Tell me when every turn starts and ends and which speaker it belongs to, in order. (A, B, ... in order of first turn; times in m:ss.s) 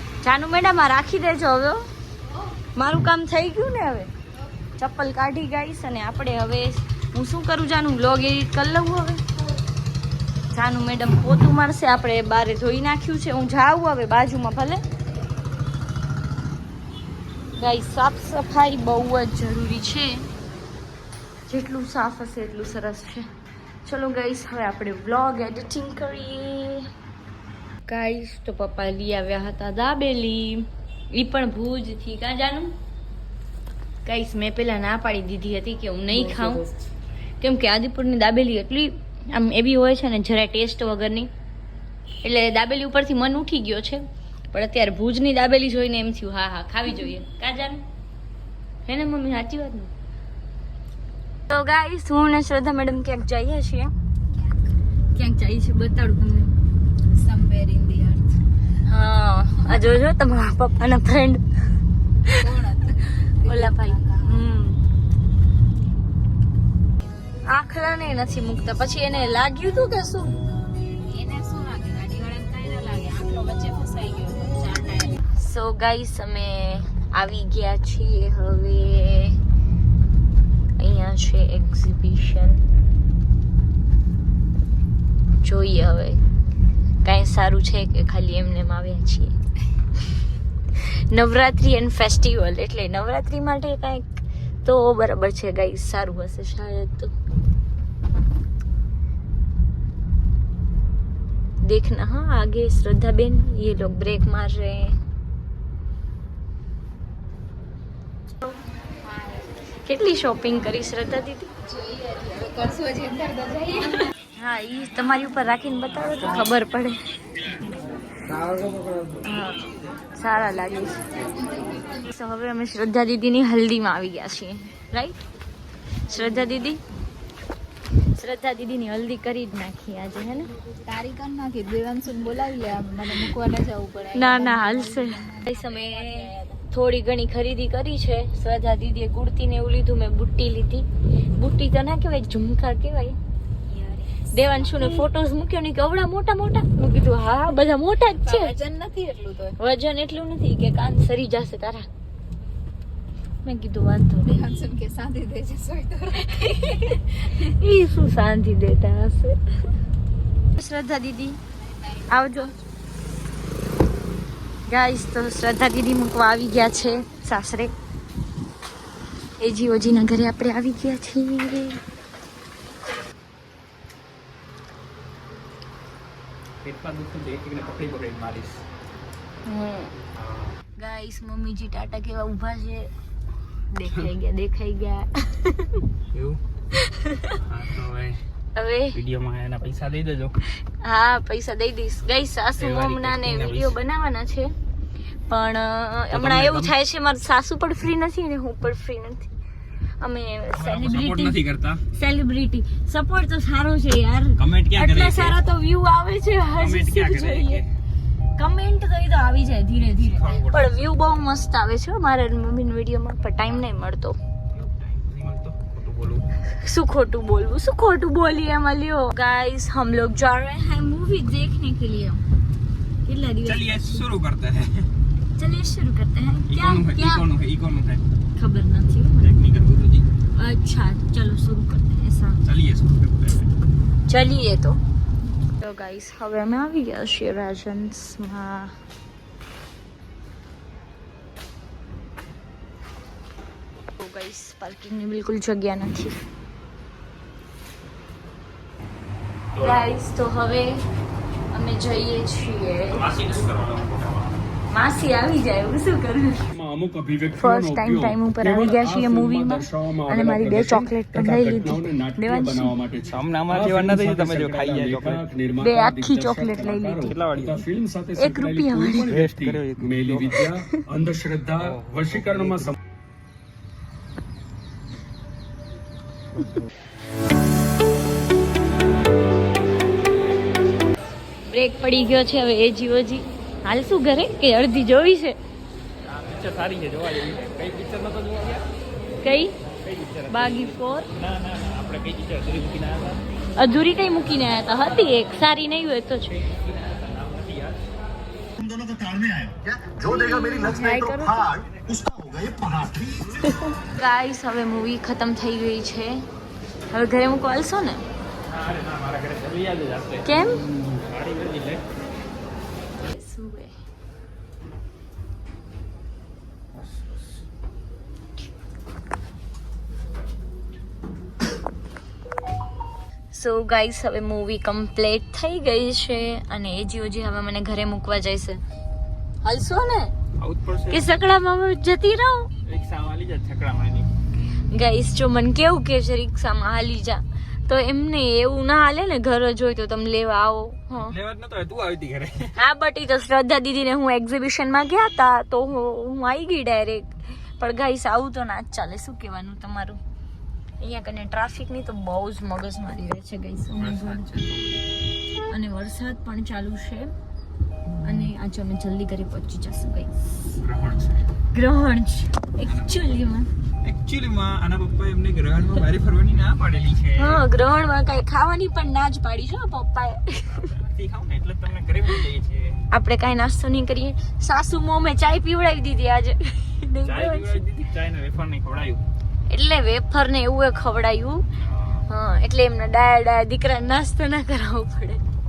0:00.2-0:01.9 A
0:02.7-0:04.1 A
0:04.8-0:09.2 A
0:10.5-0:14.8 A
0:17.6-0:20.2 A
0:21.5-0:23.3 A
0:23.8-0:26.9 A
0:27.9-0:32.7 A
0:34.0-0:36.7 A
0:37.4-0:41.3 A
0:42.2-0:47.8 A
0:48.8-0:49.9 A
0:51.5-0:53.9 A
0:54.3-0:54.8 B
0:55.1-0:56.5 A
0:57.1-0:58.4 B
0:58.8-1:01.4 A
1:02.3-1:04.3 B
1:03.4-1:04.8 A
1:07.4-1:10.4 A
1:10.9-1:15.2 B
1:15.3-1:19.4 A
1:20.8-1:22.6 A
1:25.4-1:26.2 A
1:27.0-1:29.4 A
1:30.8-1:37.1 A
1:41.6-1:45.0 A
1:49.0-1:49.4 B
1:49.8-1:51.5 A
1:51.7-1:54.1 B
1:54.4-1:57.0 A
1:59.2-1:59.6 A
2:00.2-2:01.0 A
2:01.3-2:02.0 B
2:02.0-2:05.2 A
2:06.1-2:06.8 A
2:06.1-2:06.5 B
2:08.1-2:10.5 A
2:10.8-2:16.6 B
2:14.1-2:23.2 A
2:23.7-2:24.8 B
2:24.3-2:28.5 A
2:28.2-2:29.6 B
2:29.6-2:31.9 A
2:33.4-2:34.5 A
2:34.2-2:36.4 B
2:36.2-2:39.4 A
2:40.5-2:41.4 A
2:41.6-2:42.6 B
2:42.1-2:42.6 A
2:44.7-2:47.7 A
2:49.4-2:51.8 A
2:56.6-2:58.6 C
2:59.4-2:59.9 A
3:00.1-3:00.5 C
3:00.8-3:02.9 A
3:03.7-3:05.8 A
3:06.1-3:06.4 C
3:06.7-3:07.4 A
3:07.3-3:08.2 C
3:08.5-3:09.0 A
3:08.9-3:10.4 C
3:10.8-3:14.5 A
3:12.6-3:13.8 C
3:15.3-3:19.3 A
3:16.1-3:16.7 C
3:20.0-3:21.4 A
3:20.5-3:21.8 C
3:21.9-3:27.6 A
3:24.4-3:25.4 C
3:26.6-3:27.7 C
3:28.4-3:34.2 A
3:30.0-3:30.8 C
3:34.5-3:36.3 C
3:36.5-3:42.2 A
3:43.0-3:44.0 A
3:43.4-3:44.9 C
3:45.4-3:47.2 A
3:46.5-3:48.0 C
3:48.4-3:49.3 A
3:49.2-3:50.1 C
3:50.3-3:52.4 A
3:52.4-3:53.5 C
3:54.1-3:54.8 A
3:55.6-3:58.7 A
4:04.0-4:06.2 A
4:09.5-4:09.9 C
4:09.6-4:10.8 A
4:11.5-4:13.0 A
4:12.9-4:14.4 C
4:14.7-4:16.5 A
4:16.5-4:32.8 D
4:17.4-4:22.8 A
4:23.0-4:25.3 C
4:25.6-4:27.1 A
4:27.0-4:27.7 C
4:28.2-4:29.1 A
4:29.0-4:30.6 C
4:31.6-4:32.7 C
4:41.4-4:45.4 A
4:46.0-4:48.6 C
4:49.2-4:49.5 A
4:49.8-4:53.2 C
4:50.3-4:51.1 A
4:53.6-4:56.5 A
4:56.6-4:57.8 C
4:58.6-5:03.4 E
5:00.0-5:01.5 A
5:03.4-5:06.2 A
5:06.9-5:08.0 A
5:08.5-5:11.8 C
5:10.2-5:10.6 A
5:13.0-5:13.7 A
5:23.3-5:28.6 A
5:29.4-5:30.1 A
5:30.4-5:31.1 C
5:30.9-5:32.5 A
5:32.6-5:34.1 C
5:34.7-5:41.2 A
5:41.0-5:42.5 C
5:42.6-5:50.0 A
5:50.8-5:54.3 A
5:53.8-5:54.9 C
5:55.5-5:57.1 A
5:58.0-6:00.1 A
6:00.6-6:01.2 C
6:01.5-6:03.5 A
6:02.6-6:03.1 C
6:03.8-6:07.4 C
6:07.2-6:10.7 A
6:10.5-6:12.8 C
6:12.9-6:17.6 A
6:17.0-6:19.0 C
6:19.5-6:21.4 A
6:21.6-6:22.0 C
6:22.1-6:25.2 A